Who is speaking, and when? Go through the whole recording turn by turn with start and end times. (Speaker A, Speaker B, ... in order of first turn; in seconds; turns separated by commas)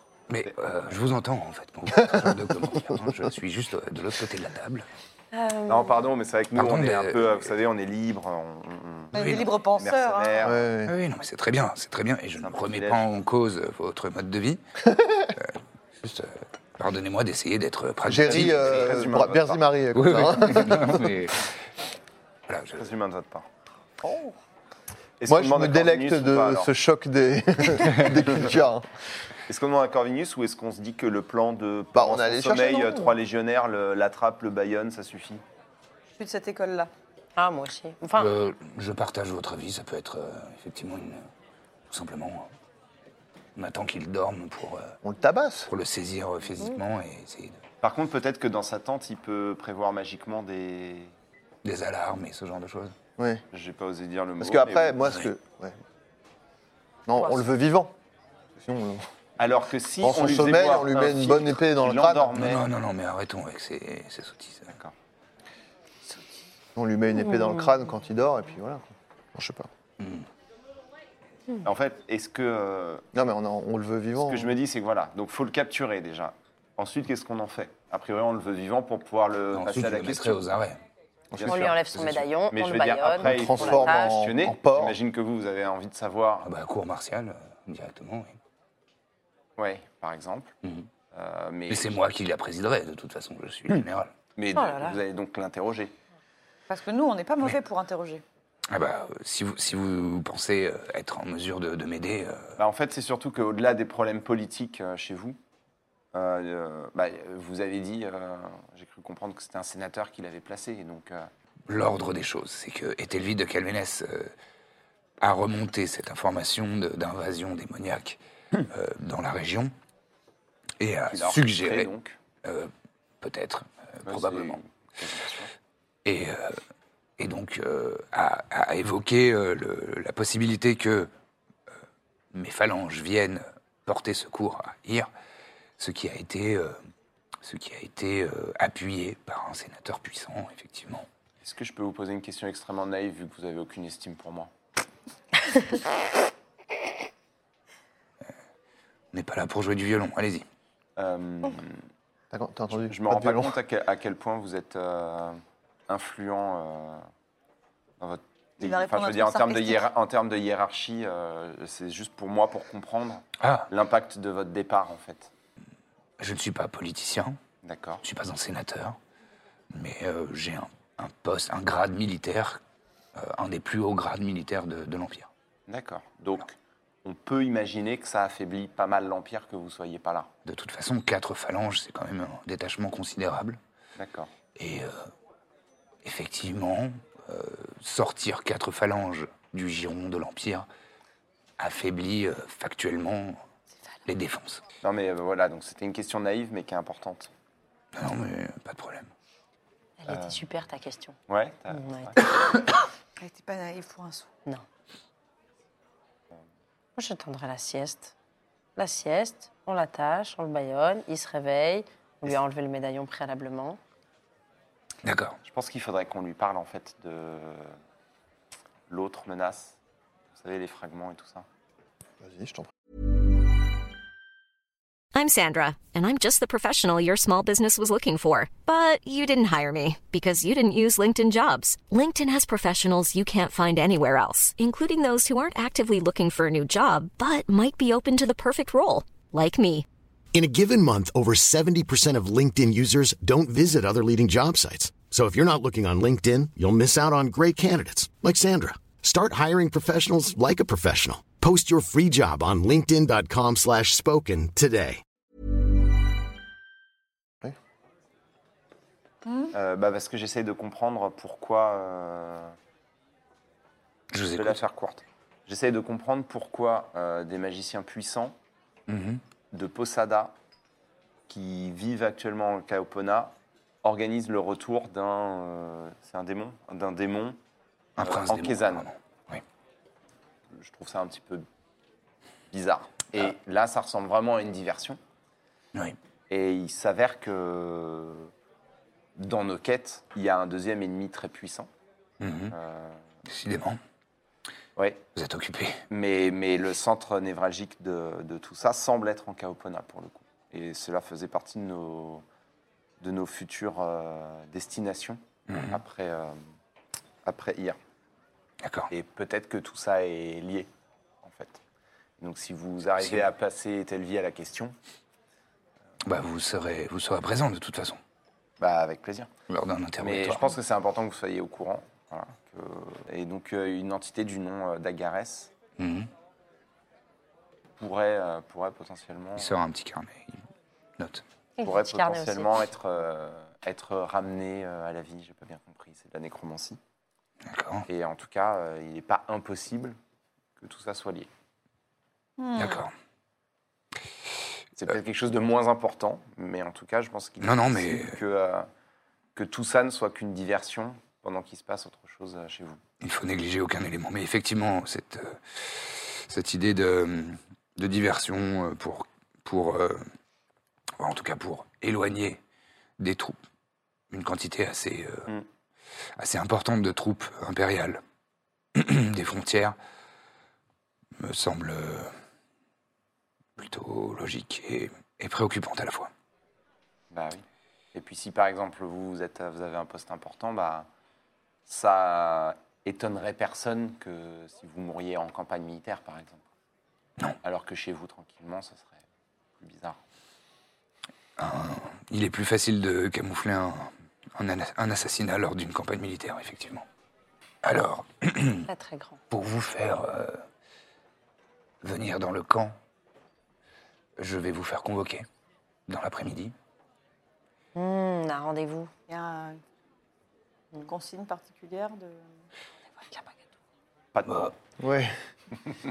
Speaker A: 0.3-4.9, Speaker B: 5.3-6.1, Speaker C: 5.7-10.6, Speaker A: 6.5-7.5, Speaker D: 9.1-10.5, Speaker A: 9.2-9.5, Speaker E: 10.4-11.0, Speaker A: 10.8-14.6, Speaker C: 12.4-13.0, Speaker A: 15.2-18.9, Speaker E: 18.0-21.2, Speaker C: 18.2-19.6, Speaker A: 19.9-21.5, Speaker A: 22.5-22.9, Speaker C: 22.8-23.5, Speaker D: 24.0-24.4, Speaker C: 25.2-26.7, Speaker E: 25.3-28.9, Speaker C: 29.5-35.4, Speaker E: 31.9-33.2, Speaker D: 36.1-36.9, Speaker B: 37.4-38.3, Speaker A: 38.2-41.3, Speaker A: 41.9-42.5, Speaker A: 43.6-45.0, Speaker E: 45.0-45.7, Speaker A: 45.7-47.6, Speaker C: 47.8-51.1, Speaker A: 51.6-53.0, Speaker E: 53.2-53.5, Speaker C: 53.5-55.2, Speaker E: 54.4-55.8, Speaker E: 57.1-58.0, Speaker E: 58.6-59.1, Speaker C: 59.4-62.7, Speaker E: 60.0-62.4, Speaker A: 62.4-64.7, Speaker E: 66.8-69.7, Speaker A: 70.0-70.3, Speaker C: 71.6-73.0, Speaker E: 73.1-74.5, Speaker C: 74.2-80.4, Speaker A: 79.5-80.8, Speaker E: 81.3-81.8, Speaker C: 81.3-86.5, Speaker B: 81.5-84.2, Speaker E: 83.2-85.0, Speaker A: 86.4-88.4, Speaker C: 89.6-90.5, Speaker C: 91.1-92.0, Speaker A: 91.7-94.1, Speaker C: 94.4-96.0, Speaker B: 94.5-95.0, Speaker D: 96.7-98.2, Speaker A: 98.7-102.6, Speaker C: 102.6-105.4, Speaker C: 106.1-111.3, Speaker A: 111.7-114.3, Speaker A: 115.2-119.7, Speaker A: 120.8-121.9, Speaker C: 121.1-122.2, Speaker A: 122.4-124.6, Speaker C: 124.1-125.5, Speaker A: 126.0-126.6, Speaker A: 127.2-131.1, Speaker A: 132.3-135.1, Speaker A: 135.8-136.8, Speaker A: 137.4-141.1, Speaker C: 141.4-144.5, Speaker A: 149.1-150.4, Speaker C: 151.0-151.8, Speaker E: 152.3-153.6, Speaker C: 152.7-157.1, Speaker C: 158.0-165.3, Speaker D: 158.6-159.9, Speaker A: 163.4-163.7, Speaker A: 166.2-167.4, Speaker C: 167.6-168.0, Speaker A: 168.0-169.0, Speaker A: 169.7-172.6, Speaker A: 173.2-175.3, Speaker C: 175.7-180.3, Speaker A: 180.4-183.6, Speaker C: 184.0-184.3, Speaker A: 184.6-185.1, Speaker A: 186.0-190.7, Speaker A: 191.6-193.4, Speaker A: 194.1-194.6, Speaker C: 194.8-197.3, Speaker A: 197.9-199.1, Speaker B: 200.0-201.2, Speaker C: 200.1-200.4, Speaker C: 201.3-202.3, Speaker B: 201.7-202.2, Speaker D: 203.2-204.3, Speaker B: 207.0-208.1, Speaker B: 208.8-213.8, Speaker A: 215.0-215.4, Speaker C: 215.4-217.8, Speaker C: 218.9-219.8, Speaker C: 220.3-221.5, Speaker E: 222.2-222.7, Speaker F: 225.2-239.9, Speaker G: 240.3-255.0, Speaker D: 259.3-259.5, Speaker C: 259.5-262.6, Speaker A: 264.1-264.6, Speaker C: 264.4-268.4, Speaker A: 268.9-269.2, Speaker C: 269.5-270.4, Speaker C: 271.3-277.4, Speaker A: 278.0-279.4, Speaker C: 278.0-278.9, Speaker C: 280.5-281.5, Speaker C: 282.5-285.0, Speaker C: 286.3-288.3, Speaker C: 289.2-291.7, Speaker A: 292.2-292.5, Speaker C: 292.5-293.1, Speaker A: 293.3-293.8, Speaker C: 294.8-295.0, Speaker A: 295.1-295.8, Speaker C: 295.9-302.2, Speaker C: 303.0-306.4, Speaker A: 305.5-305.8, Speaker C: 307.2-307.8, Speaker A: 308.6-308.9, Speaker C: 308.9-310.7, Speaker C: 311.2-311.6, Speaker C: 312.2-314.8, Speaker A: 313.0-313.3, Speaker A: 316.1-318.0, Speaker C: 318.6-319.3, Speaker A: 319.5-320.6, Speaker C: 320.0-325.5, Speaker A: 325.8-326.1, Speaker C: 327.8-329.6, Speaker A: 329.4-330.5, Speaker A: 331.0-331.2, Speaker B: 331.6-332.6, Speaker C: 331.6-336.8, Speaker A: 337.5-337.9, Speaker C: 337.9-340.0, Speaker C: 340.6-341.3, Speaker D: 342.4-342.8, Speaker A: 342.6-342.9, Speaker C: 344.8-348.7, Speaker A: 347.4-348.2, Speaker C: 349.4-352.8, Speaker A: 353.0-360.1, Speaker A: 361.0-362.4, Speaker A: 363.0-363.4, Speaker A: 364.1-365.3, Speaker A: 366.2-368.0, Speaker A: 368.8-369.8, Speaker A: 371.2-372.1, Speaker A: 373.6-376.1, Speaker C: 377.1-380.9, Speaker C: 381.7-386.4, Speaker C: 387.4-389.0, Speaker C: 389.6-390.0, Speaker A: 391.4-396.9, Speaker A: 397.6-398.7, Speaker B: 398.7-399.2, Speaker A: 399.3-400.5, Speaker A: 401.8-402.8, Speaker A: 404.2-405.3, Speaker A: 405.9-406.6, Speaker B: 407.8-408.9, Speaker D: 409.1-409.6, Speaker D: 410.8-412.3, Speaker C: 414.1-414.5, Speaker A: 414.3-414.5, Speaker E: 414.8-415.1